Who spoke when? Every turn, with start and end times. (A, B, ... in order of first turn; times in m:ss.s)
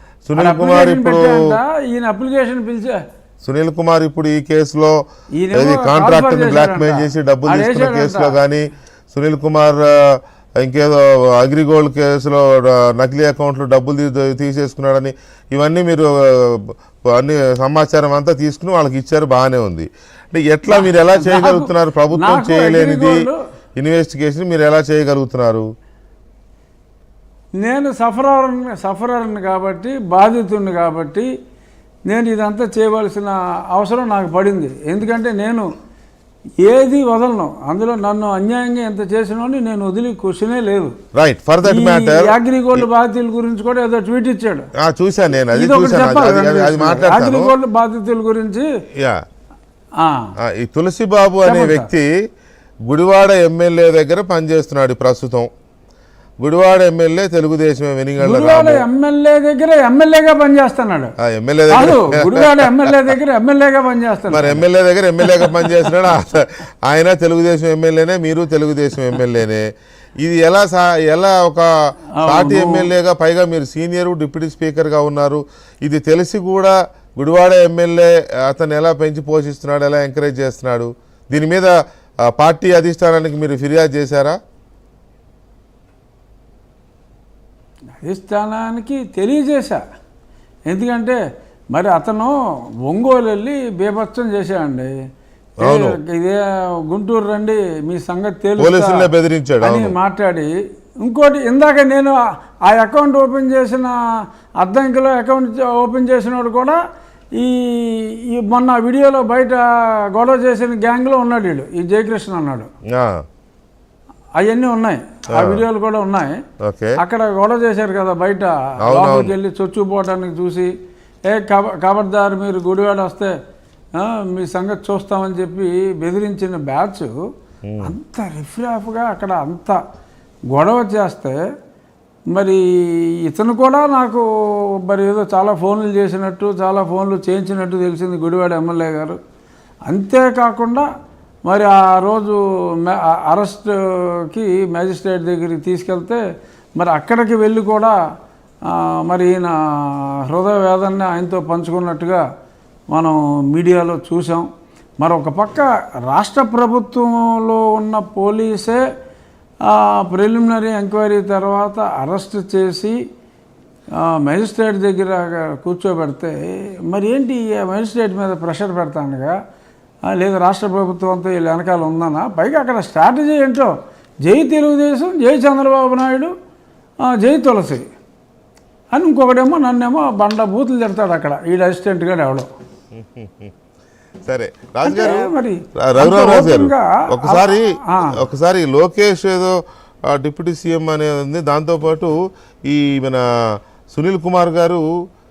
0:00.2-0:01.5 A
0:00.4-0:03.0 B
0:03.4-0:05.0 A
0:05.4-0:08.3 B
0:05.5-0:23.2 A
0:20.7-0:23.4 B
0:23.8-0:25.6 A
0:27.6-0:31.3 B
0:32.1-0:35.6 B
0:36.6-0:40.9 B
0:41.2-0:42.8 A
0:41.6-0:44.7 B
0:44.8-0:47.5 A
0:45.5-0:48.6 B
0:50.0-0:50.3 B
0:50.4-0:52.1 A
0:51.4-0:51.9 B
0:52.9-0:55.5 A
0:56.4-0:58.8 A
0:58.2-1:01.1 B
1:01.2-1:02.9 A
1:01.7-1:04.6 B
1:04.3-1:09.6 A
1:05.2-1:05.7 B
1:10.2-1:11.7 A
1:12.2-1:12.9 B
1:12.2-1:21.7 A
1:22.3-1:24.4 A
1:28.0-1:29.8 B
1:30.7-1:31.2 B
1:31.7-1:32.3 B
1:32.9-1:34.9 B
1:35.6-1:36.0 A
1:35.6-1:39.0 B
1:38.6-1:39.9 A
1:39.6-1:40.5 B
1:41.0-1:43.9 B
1:44.6-1:46.8 B
1:47.4-1:52.7 B
1:54.4-1:56.4 B
1:55.4-1:55.6 A
1:56.6-1:57.0 A
1:57.0-2:00.7 B
1:58.8-1:59.3 A
2:01.3-2:03.3 B
2:04.0-2:07.1 B
2:07.6-2:07.9 A
2:07.8-2:09.8 B
2:10.5-2:11.4 B
2:12.3-2:12.6 B
2:13.2-2:14.2 B
2:14.8-2:19.2 B
2:19.9-2:20.8 B
2:21.5-2:26.2 B
2:26.8-2:28.0 B
2:28.7-2:32.2 B
2:32.9-2:34.5 B
2:35.0-2:38.8 B
2:39.6-2:42.9 B
2:44.0-2:49.3 B
2:50.1-2:53.7 B
2:54.2-2:56.3 B
2:57.0-2:57.9 B
2:58.9-3:02.5 B
3:02.9-3:03.5 A
3:04.2-3:05.3 A
3:04.8-3:08.2 B
3:05.8-3:09.5 A
3:10.1-3:12.1 A
3:12.7-3:13.2 A
3:13.9-3:14.8 A